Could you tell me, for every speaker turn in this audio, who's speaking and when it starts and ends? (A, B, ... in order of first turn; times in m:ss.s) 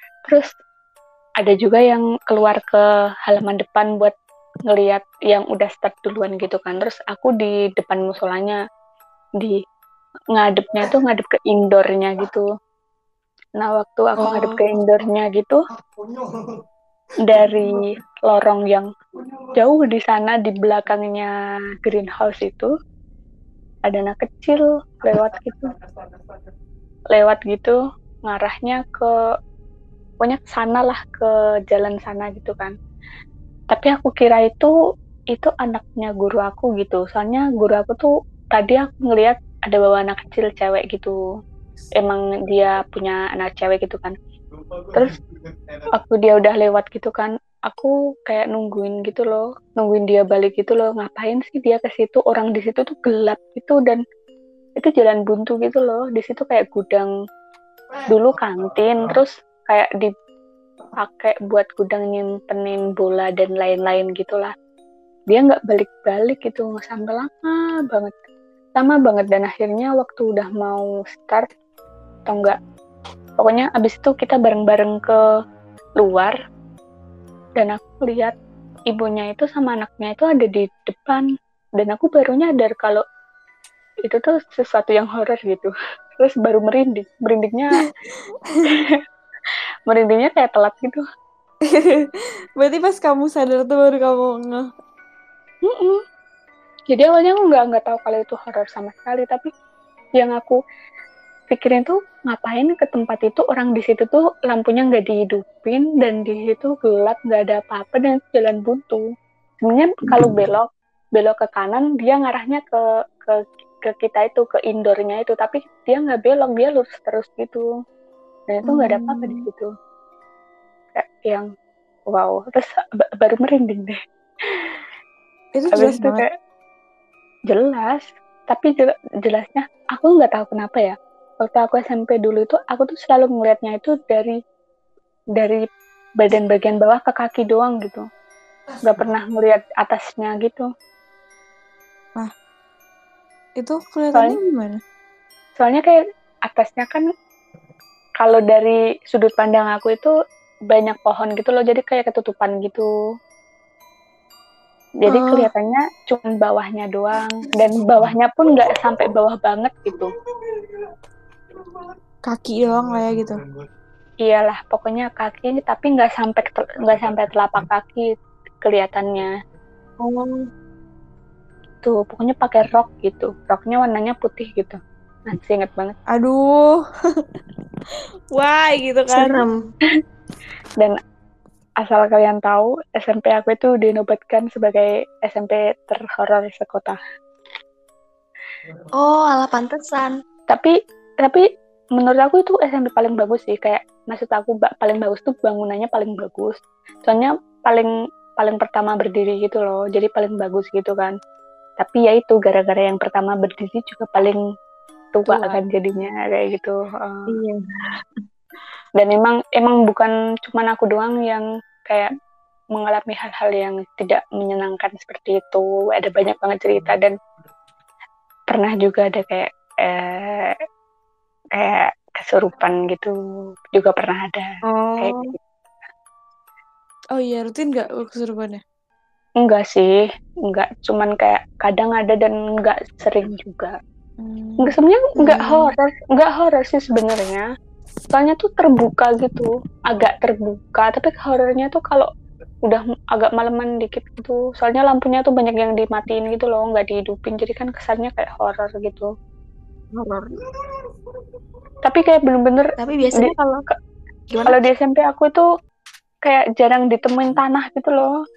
0:01.4-0:04.1 A
0:04.7-0:08.6 A
0:10.3-0:12.4 A
0:13.6-0:15.6 A
0:14.2-0:14.6 B
0:17.2-0:18.9 A
0:19.5-0:21.3 A
0:21.8-0:22.7 A
0:23.9-0:25.7 A
0:27.1-0:27.8 A
0:28.3-0:29.1 A
0:30.2-0:32.7 A
0:33.7-0:34.7 A
0:35.3-0:41.1 A
0:42.0-0:44.1 A
0:45.9-0:54.0 A
0:54.8-0:57.1 A
0:58.1-1:00.1 A
1:01.0-1:04.5 A
1:05.3-1:08.2 A
1:08.8-1:11.4 A
1:12.3-1:12.6 A
1:13.4-1:15.2 A
1:16.0-1:16.4 A
1:17.6-1:18.3 A
1:18.9-1:21.3 A
1:21.8-1:23.0 A
1:24.0-1:27.8 A
1:29.9-1:31.0 A
1:31.7-1:32.1 B
1:32.6-1:34.7 B
1:35.6-1:36.0 A
1:36.9-1:39.5 A
1:40.2-1:40.6 A
1:41.5-1:49.0 A
1:49.6-1:57.7 A
1:58.5-1:59.7 A
1:58.7-1:59.4 B
2:00.9-2:01.5 A
2:02.1-2:04.7 A
2:05.6-2:06.2 B
2:05.7-2:06.2 A
2:07.5-2:14.4 A
2:15.4-2:15.6 A
2:16.2-2:18.0 A
2:18.8-2:20.7 A
2:23.6-2:24.8 B
2:25.6-2:27.0 A
2:28.2-2:30.1 A
2:30.7-2:32.8 A
2:35.0-2:40.1 A
2:42.3-2:43.4 B
2:44.2-2:48.1 A
2:48.6-2:49.3 A
2:50.0-2:50.5 C
2:51.8-2:56.0 A
2:56.1-2:56.7 B
2:58.3-2:59.4 B
2:59.1-2:59.6 C
3:01.8-3:07.0 A
3:09.0-3:10.1 C
3:10.5-3:11.4 A
3:12.0-3:21.1 A
3:21.8-3:24.4 A
3:25.1-3:27.3 A
3:25.3-3:25.6 C
3:27.3-3:28.2 C
3:29.0-3:32.1 A
3:32.7-3:37.1 A
3:38.5-3:40.6 A
3:41.6-3:43.1 A
3:43.7-3:45.3 A
3:44.8-3:45.3 C
3:47.2-3:48.6 B
3:49.4-3:50.0 A
3:50.5-3:53.7 A
3:54.2-3:55.4 B
3:54.6-3:57.5 A
3:58.1-4:02.1 A
4:02.7-4:09.1 A
4:09.9-4:10.4 C
4:11.8-4:13.3 A
4:12.8-4:13.6 C
4:14.3-4:14.6 C
4:14.4-4:15.5 A
4:16.2-4:18.1 A